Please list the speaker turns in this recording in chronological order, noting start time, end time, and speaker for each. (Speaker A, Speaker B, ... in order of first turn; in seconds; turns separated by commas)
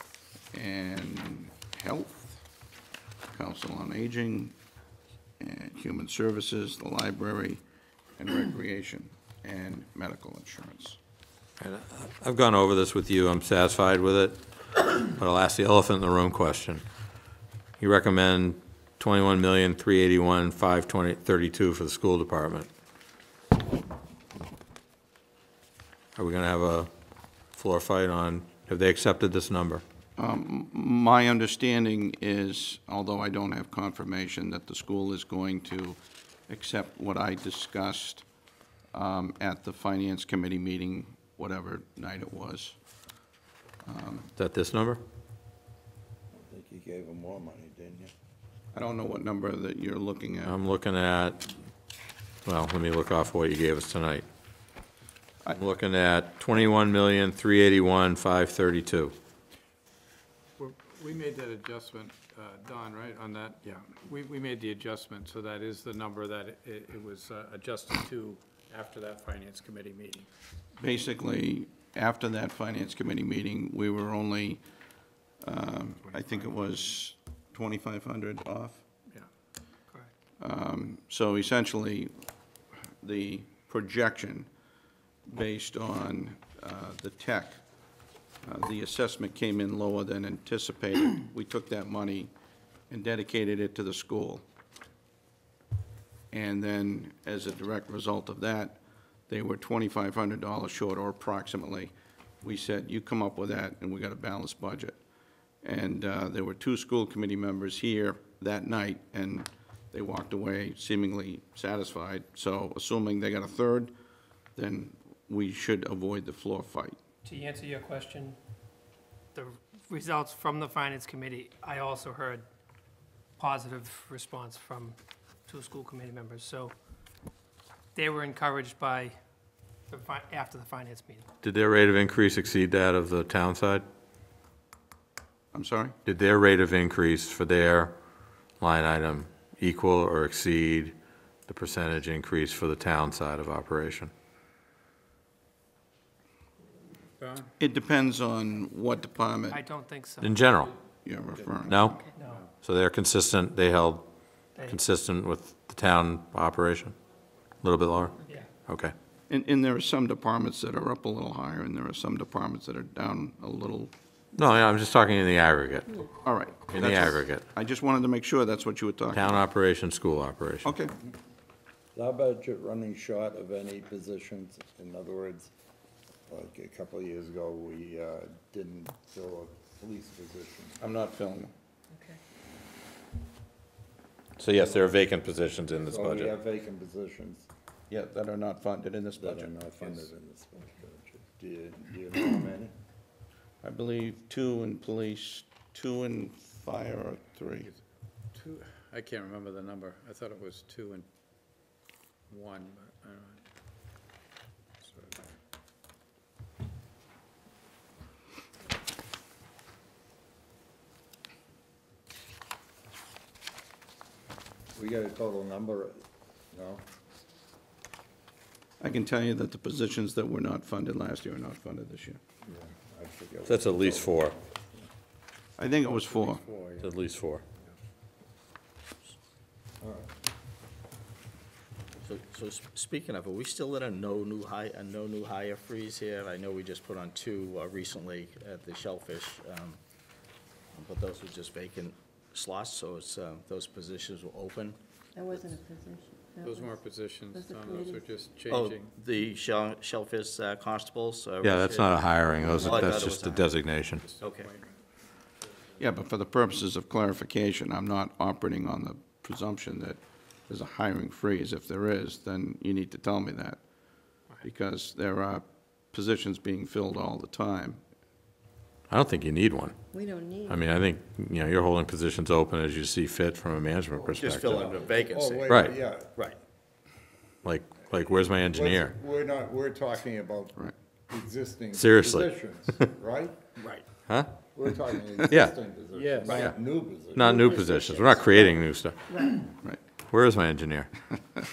Speaker A: 0.5-2.4, Speaker A: 3.3-4.5, Speaker A: 5.4-7.6, Speaker A: 8.2-11.0, Speaker B: 11.6-16.8, Speaker B: 17.8-22.7, Speaker B: 26.1-26.9, Speaker B: 27.5-29.8, Speaker A: 30.2-38.2, Speaker A: 38.9-42.8, Speaker A: 43.8-44.3, Speaker B: 44.4-45.0, Speaker C: 46.3-48.1, Speaker A: 48.7-50.5, Speaker B: 50.4-51.4, Speaker B: 52.4-54.2, Speaker B: 55.5-59.1, Speaker D: 60.6-70.3, Speaker A: 70.8-74.6, Speaker A: 75.4-78.8, Speaker A: 80.4-82.1, Speaker A: 83.0-84.5, Speaker A: 85.3-87.6, Speaker A: 88.4-92.3, Speaker A: 92.9-94.4, Speaker A: 96.3-105.0, Speaker A: 105.6-113.9, Speaker A: 114.5-117.0, Speaker E: 117.2-118.4, Speaker E: 119.3-122.4, Speaker E: 123.4-125.0, Speaker E: 125.5-126.7, Speaker E: 127.9-129.2, Speaker E: 129.9-131.3, Speaker B: 131.4-133.8, Speaker A: 135.5-135.9, Speaker B: 136.0-137.9, Speaker B: 138.6-140.9, Speaker B: 141.5-144.1, Speaker D: 147.2-147.5, Speaker A: 147.6-149.6, Speaker E: 149.5-150.4, Speaker B: 150.2-150.7, Speaker A: 151.0-151.8, Speaker B: 151.7-152.1, Speaker E: 152.1-152.4, Speaker B: 152.6-154.1, Speaker E: 154.5-154.8, Speaker B: 154.6-156.9, Speaker B: 157.6-158.9, Speaker A: 159.3-163.9, Speaker B: 164.3-165.9, Speaker A: 166.2-169.4, Speaker B: 166.7-167.4, Speaker B: 169.1-170.7, Speaker A: 170.6-170.9, Speaker C: 171.9-175.5, Speaker C: 176.3-180.8, Speaker A: 180.8-181.5, Speaker F: 181.9-182.2, Speaker B: 184.4-186.3, Speaker C: 184.5-185.0, Speaker C: 185.9-187.5, Speaker A: 187.9-190.1, Speaker C: 189.2-192.7, Speaker A: 193.6-197.7, Speaker D: 198.3-201.1, Speaker D: 202.3-203.4, Speaker D: 204.8-205.2, Speaker C: 214.7-216.0, Speaker C: 216.5-216.8, Speaker A: 218.8-222.2, Speaker C: 222.4-224.8, Speaker B: 223.4-224.3, Speaker A: 225.6-226.4, Speaker D: 225.8-226.9, Speaker B: 226.8-227.4, Speaker C: 229.8-230.1, Speaker G: 232.0-239.8, Speaker G: 240.7-244.8, Speaker F: 245.1-246.8, Speaker D: 246.4-249.0, Speaker F: 247.3-248.1, Speaker G: 248.5-253.7, Speaker B: 251.4-254.0, Speaker D: 253.8-254.8, Speaker G: 254.2-254.5, Speaker D: 255.4-255.9, Speaker A: 255.8-263.6, Speaker A: 264.4-267.8, Speaker B: 268.9-269.8, Speaker F: 269.9-270.7, Speaker B: 270.5-274.6, Speaker C: 274.0-276.2, Speaker G: 274.1-276.4, Speaker B: 275.5-275.8, Speaker B: 277.4-278.9, Speaker C: 278.4-283.5, Speaker B: 281.7-282.8, Speaker G: 283.6-283.8, Speaker C: 284.5-288.6, Speaker B: 285.3-285.5, Speaker D: 285.9-286.3, Speaker B: 287.1-289.2, Speaker F: 287.5-288.2, Speaker B: 290.1-290.9